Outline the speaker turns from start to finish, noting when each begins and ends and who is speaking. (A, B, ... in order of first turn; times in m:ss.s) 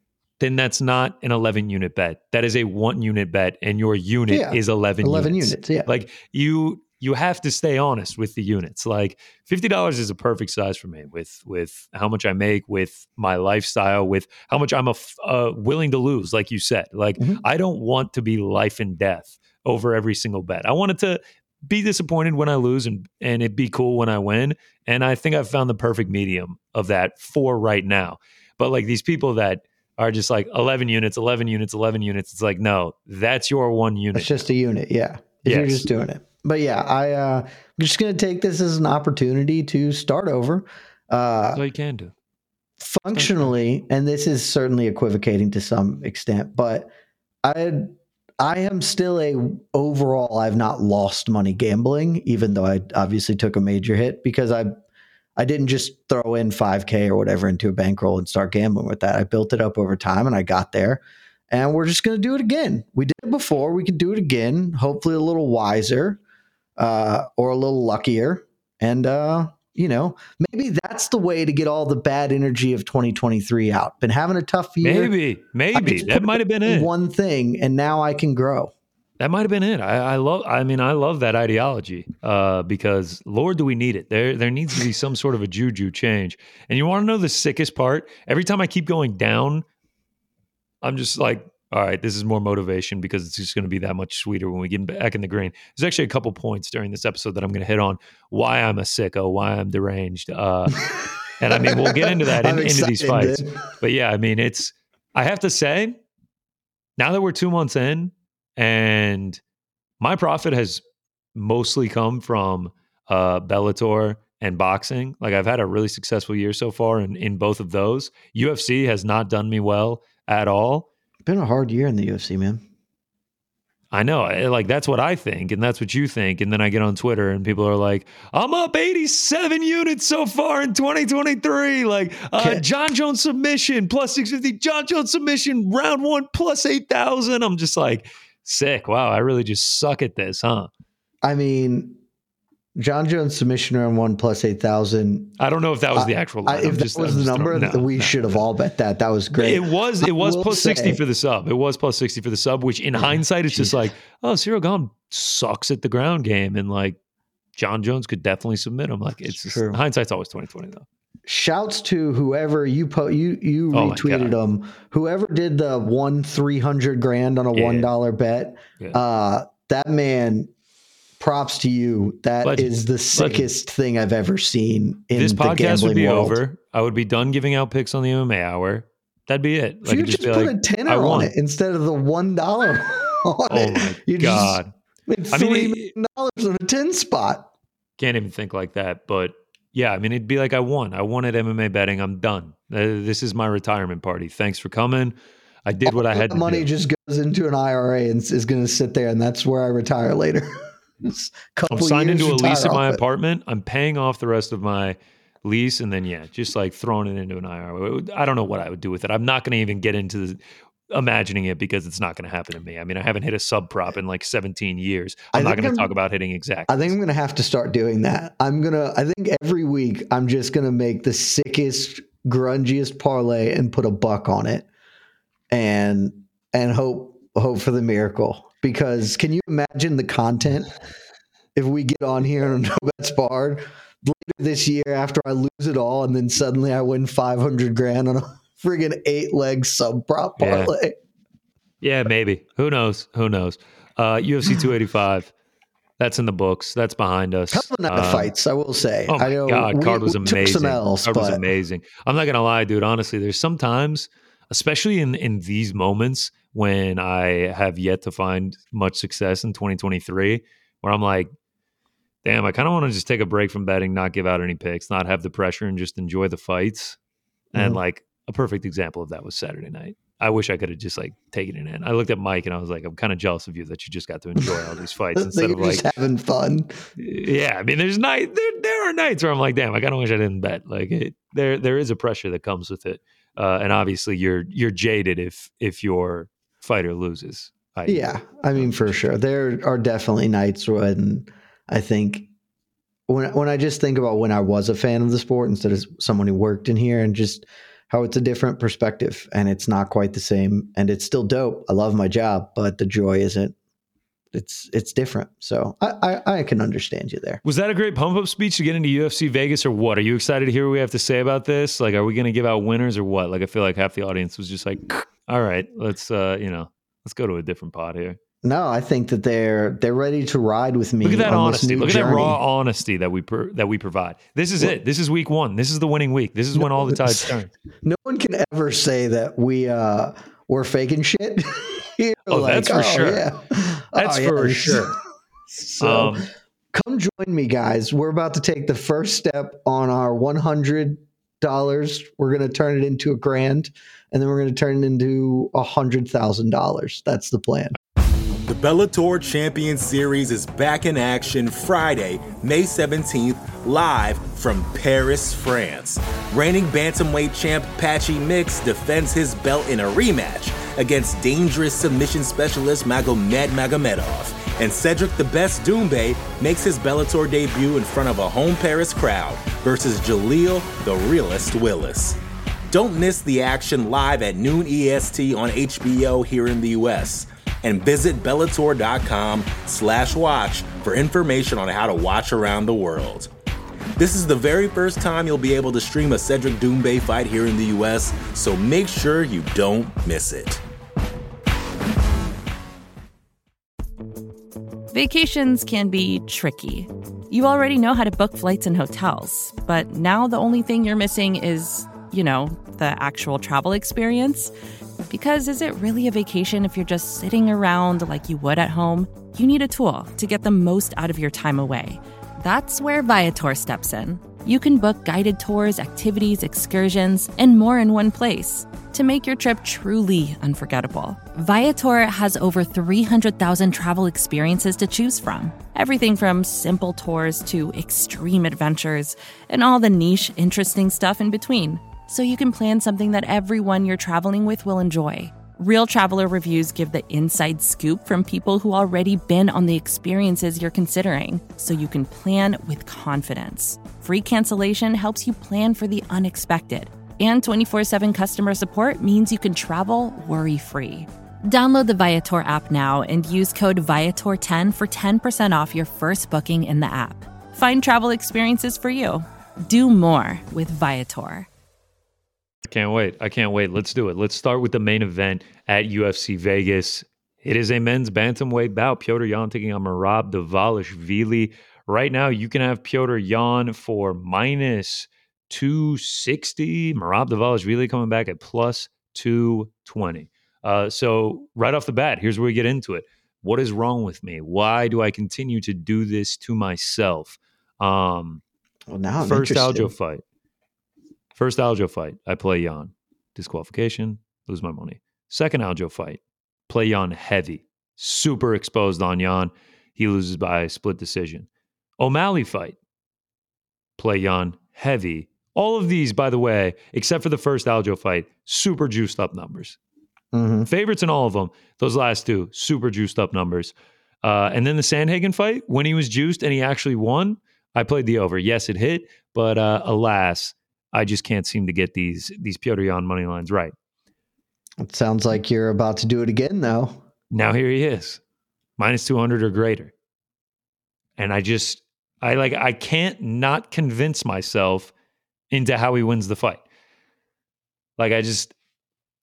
0:00.4-0:34.5 A
0:04.3-0:05.9 B
0:34.1-0:41.6 B
0:35.4-0:35.9 A
0:41.5-0:42.1 A
0:42.8-0:46.9 B
0:43.1-0:43.5 A
0:47.4-0:54.8 B
0:55.4-1:06.2 B
1:06.8-1:15.1 B
1:14.8-1:16.9 A
1:15.7-1:18.7 B
1:19.2-1:29.6 A
1:30.8-1:46.0 A
1:41.5-1:43.6 B
1:47.0-1:49.4 A
1:50.0-1:50.8 A
1:51.3-2:00.9 A
2:01.2-2:02.6 B
2:03.9-2:20.7 A
2:12.4-2:12.6 B
2:21.2-2:22.0 B
2:22.8-2:25.3 B
2:25.4-2:28.4 A
2:26.0-2:31.0 B
2:29.3-2:37.0 A
2:33.0-2:33.8 B
2:37.6-2:40.8 A
2:39.2-2:39.8 B
2:41.2-2:50.5 B
2:43.7-2:44.3 A
2:47.5-2:47.9 A
2:51.2-2:56.4 B
2:52.4-2:53.5 A
2:55.1-3:01.3 A
2:59.8-3:07.5 B
3:03.5-3:04.7 A
3:05.3-3:05.9 A
3:08.0-3:15.1 A
3:15.6-3:16.7 A
3:15.8-3:23.0 B
3:21.7-3:30.4 A
3:30.9-3:37.0 A
3:35.3-3:35.9 B
3:36.7-3:44.7 B
3:45.5-3:50.7 B
3:51.5-4:01.0 B
4:00.4-4:00.8 A
4:01.8-4:05.3 A
4:06.0-4:08.3 A
4:07.5-4:11.4 B
4:09.1-4:21.3 A
4:22.2-4:27.0 A
4:27.5-4:27.8 B
4:27.5-4:35.9 A
4:35.1-4:36.8 B
4:37.0-4:49.1 A
4:47.9-4:52.3 B
4:53.1-5:03.6 B
5:04.3-5:07.4 B
5:07.4-5:18.2 A
5:18.4-5:22.4 B
5:21.0-5:27.5 A
5:26.5-5:34.9 B
5:32.3-5:33.3 A
5:34.0-5:35.0 A
5:35.5-5:47.8 B
5:35.8-5:36.3 A
5:48.4-6:12.2 C
6:12.7-6:23.3 C
6:24.0-6:30.6 C
6:34.9-6:44.5 D
6:45.1-7:41.5 D
7:42.6-8:08.4 A
8:08.9-8:09.9 B
8:09.2-8:10.2 A
8:11.4-8:21.5 A
8:22.0-8:22.8 A
8:24.0-8:29.8 A
8:30.3-8:30.7 B
8:30.7-8:43.7 A
8:44.8-8:47.0 B
8:47.3-8:48.2 A
8:48.8-8:49.9 A
8:51.2-8:54.9 A
8:55.5-8:56.6 A
8:58.0-8:58.5 A